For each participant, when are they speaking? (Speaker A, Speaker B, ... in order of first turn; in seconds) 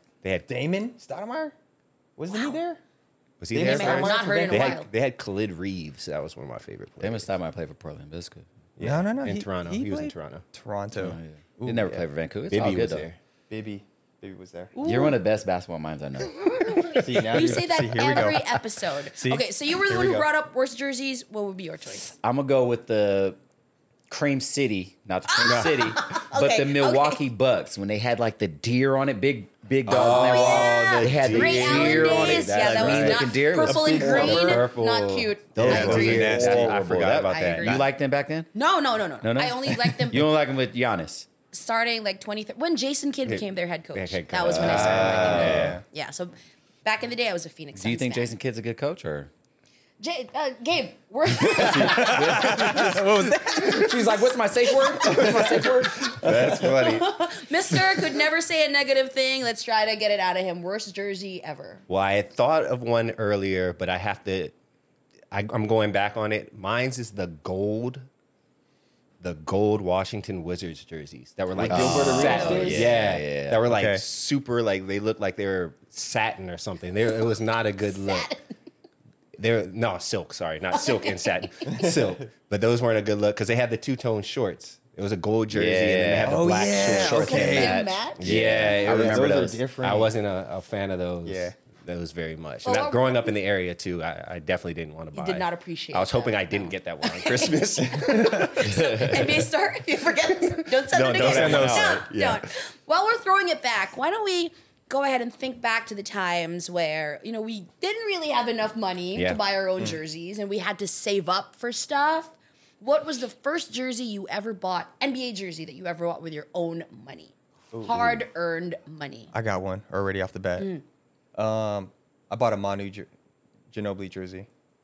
Speaker A: 0.2-0.5, 3.4-7.3, 8.8-10.4, 12.5-13.2, 25.4-26.0, 29.9-37.9, 43.2-45.8, 56.0-57.3, 61.9-64.5, 65.3-68.1, 69.2-78.3, 79.4-87.6, 88.2-99.4, 100.4-102.5, 109.1-109.4, 117.9-118.2
Speaker B: 0.5-1.6, 2.2-2.8, 3.5-4.8, 8.8-12.1, 13.5-14.8, 16.9-18.6, 19.1-20.3, 33.9-34.6, 35.6-36.8, 44.6-45.8, 51.6-54.0, 55.1-56.7, 71.6-72.9, 73.7-74.0, 81.7-82.3, 86.3-87.8, 88.8-90.1, 91.2-91.5, 101.2-102.0, 117.7-118.0, 119.3-120.7, 121.3-123.1, 123.7-124.5
Speaker C: 2.3-2.6, 3.6-4.9, 14.8-15.2, 16.8-22.1, 25.4-27.2, 29.9-36.6, 37.3-37.9, 38.5-40.3, 41.5-48.3, 50.0-52.5, 54.9-55.4, 56.8-61.8, 71.9-72.8, 78.0-78.4, 80.7-81.5, 87.1-88.3, 92.6-93.2, 95.1-119.3, 120.6-120.8
Speaker D: 7.0-8.5, 10.9-13.1, 14.8-16.9, 22.1-23.4, 24.1-34.6, 35.7-38.5, 39.2-41.3, 44.4-45.8, 47.7-49.3, 51.4-56.2, 71.6-73.6, 85.5-89.6, 98.6-99.3, 101.1-102.0